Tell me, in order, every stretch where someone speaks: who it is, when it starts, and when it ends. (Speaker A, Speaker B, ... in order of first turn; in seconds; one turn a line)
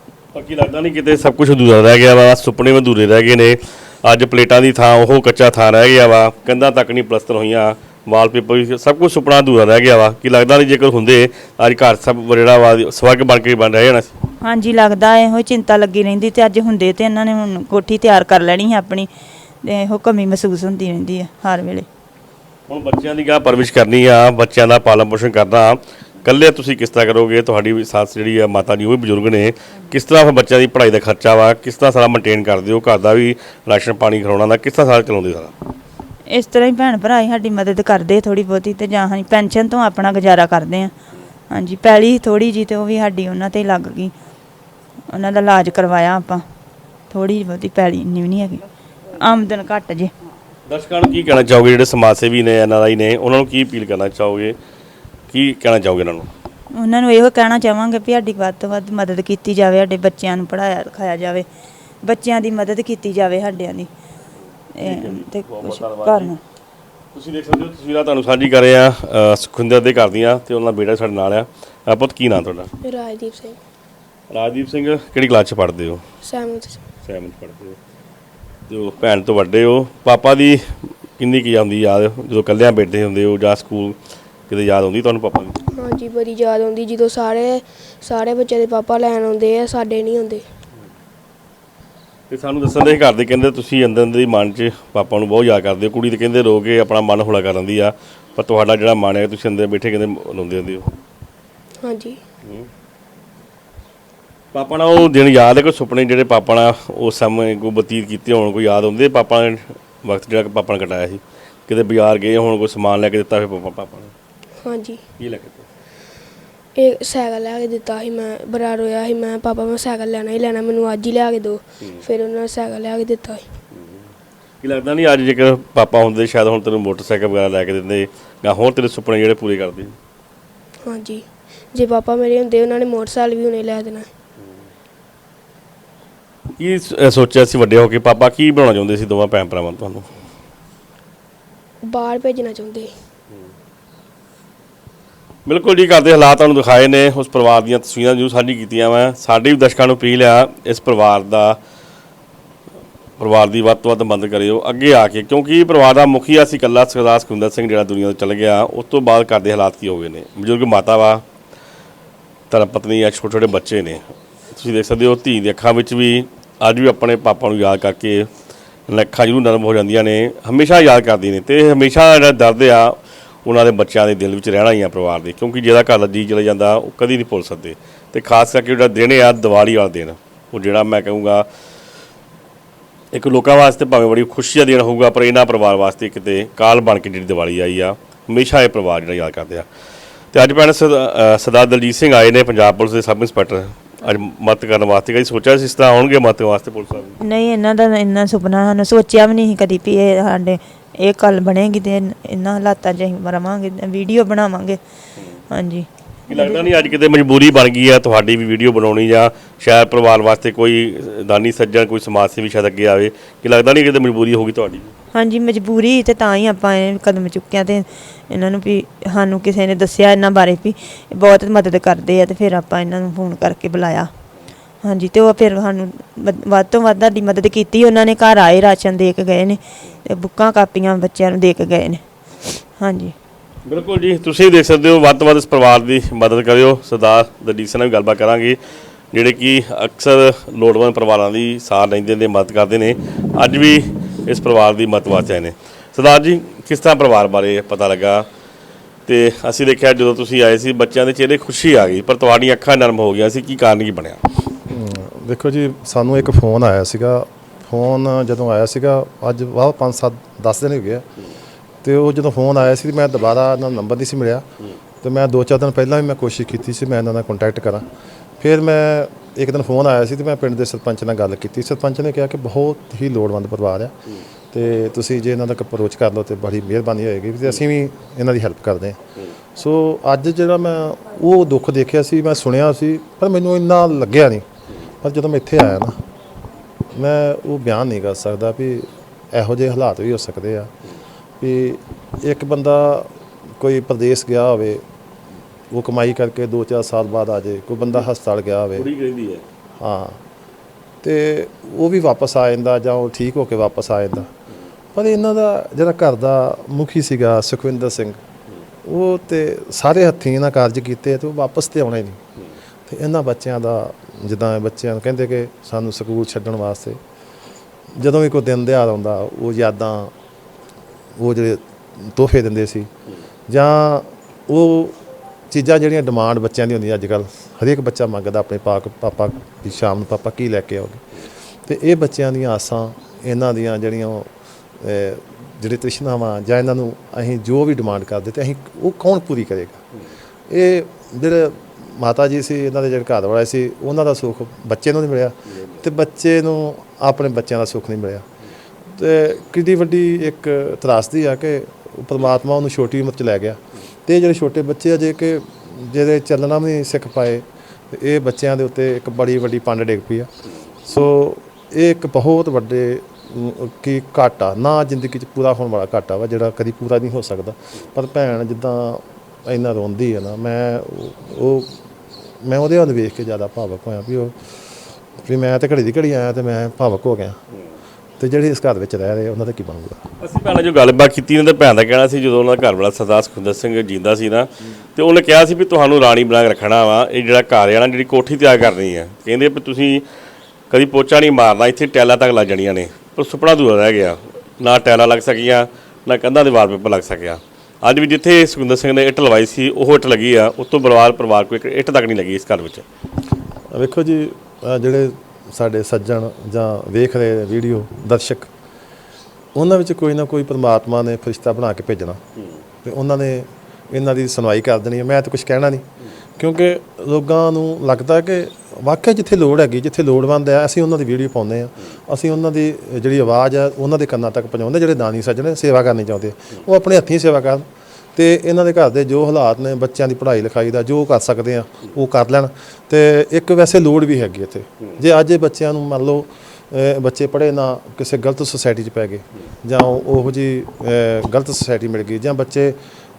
Speaker A: 0.3-14.2
Speaker B: 14.4-19.1
Speaker B: 19.6-21.9
Speaker A: 22.7-35.5
Speaker B: 36.3-40.9
Speaker B: 41.5-44.1
Speaker B: 45.1-46.4
Speaker B: 47.1-48.6
Speaker B: 49.1-50.1
Speaker A: 50.7-54.6
Speaker A: 55.3-56.3
Speaker B: 56.7-61.5
Speaker B: 62.0-63.9
Speaker B: 64.8-66.4
Speaker A: 64.8-66.3
Speaker A: 67.1-72.7
Speaker C: 72.8-73.6
Speaker A: 74.3-76.0
Speaker C: 76.2-76.8
Speaker A: 77.0-77.8
Speaker A: 78.7-84.0
Speaker A: 84.5-85.6
Speaker C: 85.8-90.4
Speaker A: 92.3-100.9
Speaker C: 101.8-102.2
Speaker A: 104.5-114.1
Speaker C: 114.6-115.0
Speaker A: 115.2-115.7
Speaker C: 116.8-123.5
Speaker A: 123.7-124.1
Speaker A: 124.6-129.9
Speaker C: 130.8-134.1
Speaker A: 136.6-140.1
Speaker C: 141.8-142.9
Speaker A: 145.5-151.6
Speaker A: 153.2-161.2
Speaker A: 162.5-168.3
Speaker A: 168.9-181.4
Speaker A: 183.1-189.7
Speaker A: 190.3-197.2
Speaker B: 197.2-204.8
Speaker B: 205.5-206.6
Speaker A: 206.3-214.9
Speaker B: 215.1-224.1
Speaker B: 224.8-232.0
Speaker B: 232.8-233.1
Speaker A: 233.7-238.6
Speaker A: 239.1-248.3
Speaker A: 249.1-254.2
Speaker D: 254.7-261.1
Speaker D: 261.8-264.4
Speaker D: 265.0-267.9
Speaker D: 268.4-273.9
Speaker D: 274.5-279.0
Speaker D: 279.6-284.4
Speaker D: 285.0-286.0
Speaker D: 286.9-290.7
Speaker D: 291.4-294.8
Speaker D: 295.7-298.9
Speaker A: 298.8-299.4
Speaker D: 299.8-300.2
Speaker D: 301.0-304.3
Speaker D: 304.9-308.2
Speaker D: 308.9-312.2
Speaker D: 312.9-317.0
Speaker D: 317.9-320.1
Speaker D: 321.2-322.9
Speaker D: 323.5-325.0
Speaker D: 325.5-331.0
Speaker D: 331.7-339.8
Speaker D: 340.5-348.3
Speaker D: 348.9-360.3
Speaker D: 360.9-371.8
Speaker D: 372.4-374.4
Speaker D: 375.2-377.4
Speaker D: 378.2-380.0
Speaker A: 380.2-390.0
Speaker A: 390.7-402.8
Speaker D: 403.7-408.5
Speaker D: 409.6-412.2
Speaker D: 412.9-415.9
Speaker D: 416.4-427.6
Speaker D: 428.2-442.8